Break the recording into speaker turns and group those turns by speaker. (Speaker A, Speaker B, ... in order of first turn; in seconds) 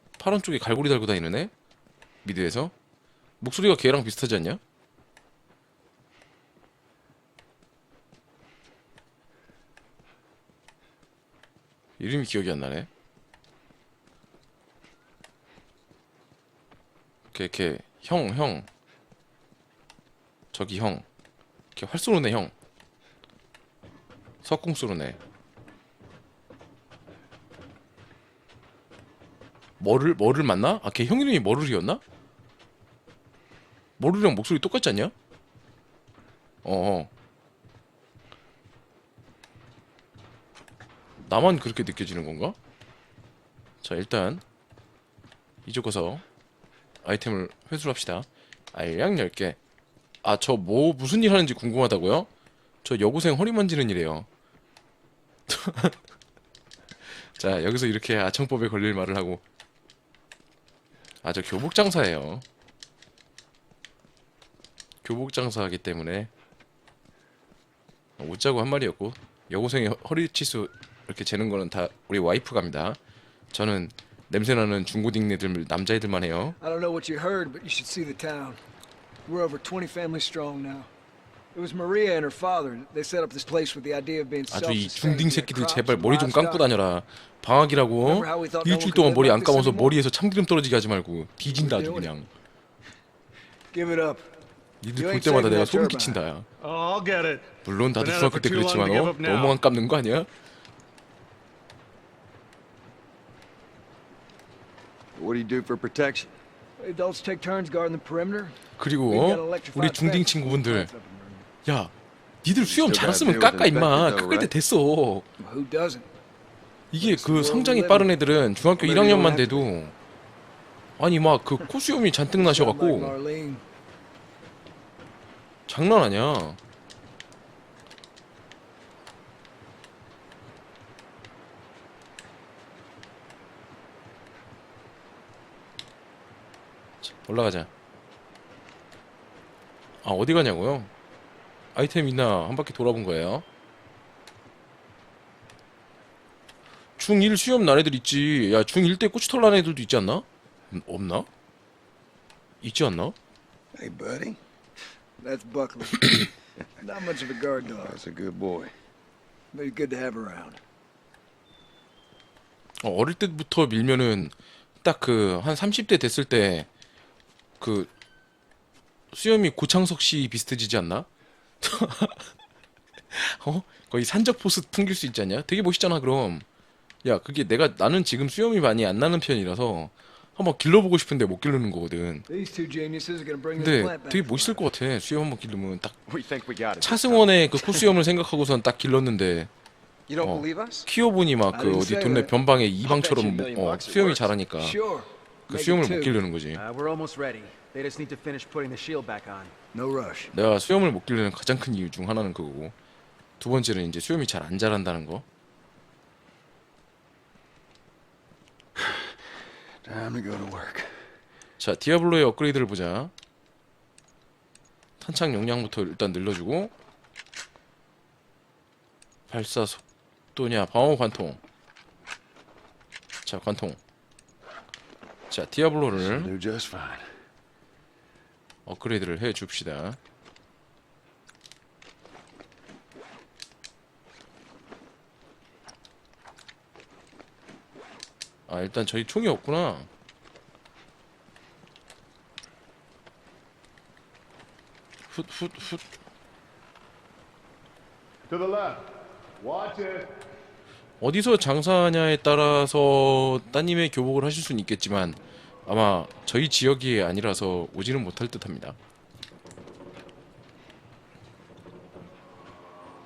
Speaker A: 0.2-1.5, 2.2-2.7, 3.4-4.6, 12.0-12.9, 17.3-18.7, 20.5-21.0, 21.8-22.5, 24.4-25.2, 29.8-32.0, 34.0-35.1, 36.6-37.1, 41.2-42.5, 43.8-44.4, 45.6-46.2, 47.0-49.6, 50.2-52.3, 52.8-54.3, 55.5-56.0, 57.1-59.4, 61.2-62.4, 65.0-66.3, 68.2-73.0, 73.5-76.6, 84.5-92.3, 94.8-96.5, 97.6-100.3, 108.8-110.9, 111.6-111.9, 112.4-115.2, 116.9-119.9, 121.0-123.1, 125.7-126.6, 137.0-137.7, 140.0-140.9, 141.7-143.4, 147.0-151.3, 152.6-153.1, 162.8-166.7, 167.6-167.9, 169.1-171.1, 171.6-172.3, 173.1-176.4, 177.0-182.2, 183.6-186.0, 186.8-189.5, 190.2-194.8, 195.5-196.6, 200.3-202.7, 203.4-205.2, 211.6-213.1, 215.0-216.7, 219.3-219.8, 220.3-221.4, 223.2-223.8, 225.3-226.3, 228.7-230.0, 238.5-239.9, 245.1-245.8, 251.0-258.8
Speaker B: 76.6-78.6, 79.2-80.9, 81.5-86.7, 88.0-90.0, 91.4-92.1, 93.7-94.3, 94.9-96.2, 106.8-108.5, 109.1-111.5, 115.4-116.0, 117.0-118.2, 122.3-123.6, 155.2-156.2, 156.8-158.0, 159.5-160.6, 182.3-184.6, 191.5-192.3, 194.5-196.2, 199.7-200.3
Speaker C: 96.6-99.6, 248.3-250.1
Speaker D: 105.1-106.3, 112.6-114.5, 118.8-119.7, 153.7-154.4, 157.7-158.7, 186.1-187.3, 209.8-211.0, 225.9-227.2
Speaker E: 190.1-190.8, 192.8-194.2, 196.5-199.5